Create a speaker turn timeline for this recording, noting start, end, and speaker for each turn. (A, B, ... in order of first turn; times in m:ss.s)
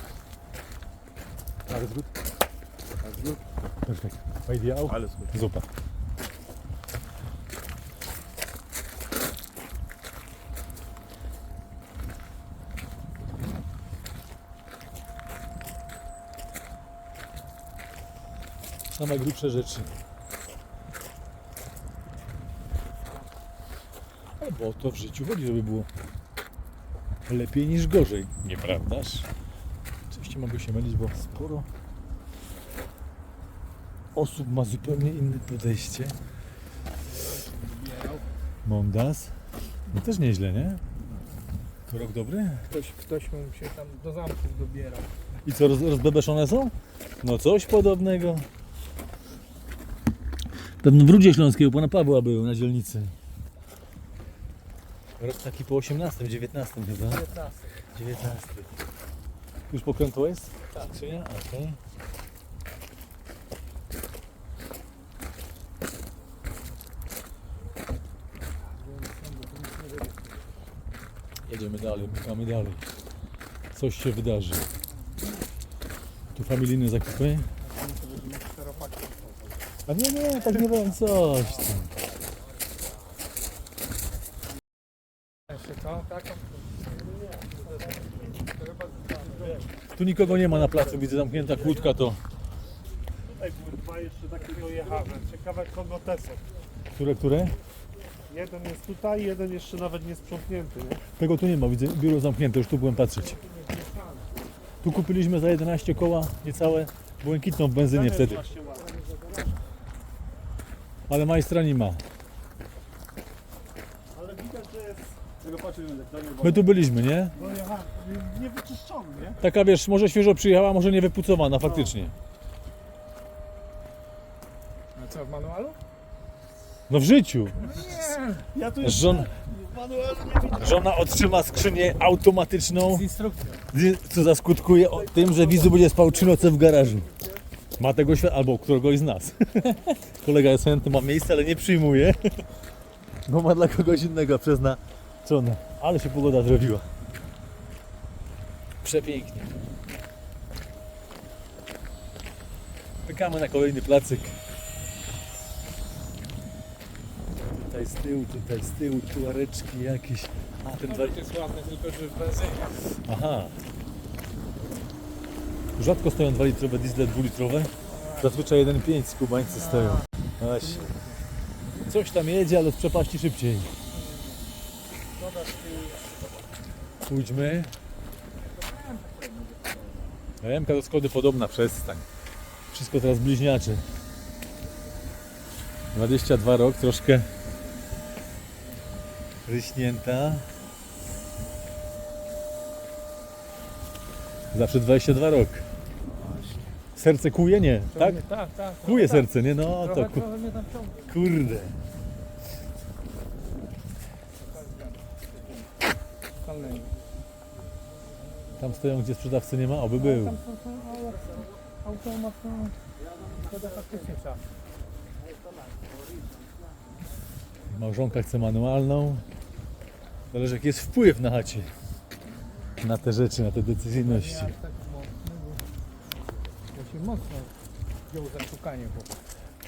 0:01.7-0:02.1 A
0:03.0-0:03.4 B
0:03.8-0:05.7 A
0:18.9-0:19.9 A
0:24.4-0:25.9 A
0:27.3-0:29.3 A
0:30.1-0:31.7 A
0:34.2-0:36.2 A
0:37.1-0:38.3 C
0:38.6-0:39.4 A
0:39.9-0:40.8 A
0:41.9-0:42.7 A
0:42.7-0:45.1 C
0:45.4-0:48.5 A
0:50.8-0:53.1 A
0:55.2-0:57.3 A
0:57.1-0:57.5 C
0:57.9-0:58.7 A
0:59.7-1:01.8 A
1:08.9-1:10.1 C
1:11.4-1:12.8 A
1:13.7-1:14.6 A
1:16.3-1:17.5 A
1:17.7-1:19.4 C
1:19.9-1:21.9 A
1:25.5-1:26.4 C
1:29.9-1:32.2 A
1:33.3-1:36.4 B
1:36.9-1:37.6 A
1:38.3-1:41.0 B
1:41.2-1:43.4 A
1:44.8-1:48.5 A
1:48.0-1:49.0 B
1:51.1-1:52.0 A
1:54.2-1:56.6 B
1:56.4-1:57.4 A
1:57.4-1:59.4 B
1:59.4-2:02.1 A
2:05.0-2:05.8 C
2:06.9-2:08.0 A
2:07.6-2:08.5 C
2:08.6-2:10.7 B
2:08.8-2:09.4 A
2:10.4-2:13.1 A
2:12.9-2:13.6 C
2:13.7-2:17.1 A
2:17.8-2:22.4 A
2:23.3-2:26.9 A
2:28.8-2:29.5 A
2:33.1-2:34.4 A
2:37.4-2:41.7 A
2:41.0-2:42.7 C
2:42.9-2:43.6 A
2:45.8-2:50.9 A
2:50.8-2:51.1 C
2:51.9-2:53.7 A
2:54.0-2:54.4 C
2:55.2-2:55.9 C
2:57.1-2:57.7 A
2:58.6-2:59.7 C
3:00.4-3:02.1 A
3:02.7-3:03.8 A
3:05.9-3:07.3 A
3:09.5-3:10.5 A
3:14.5-3:15.7 A
3:17.0-3:18.2 A
3:18.0-3:19.3 C
3:18.8-3:20.3 A
3:19.8-3:21.0 C
3:21.0-3:21.8 A
3:24.4-3:25.1 C
3:26.4-3:27.0 C
3:28.6-3:30.4 A
3:30.0-3:32.8 C
3:33.3-3:34.4 C
3:37.7-3:39.2 A
3:40.3-3:41.7 A
3:42.8-3:44.6 A
3:44.0-3:45.6 C
3:46.8-3:47.5 C
3:48.1-3:49.1 C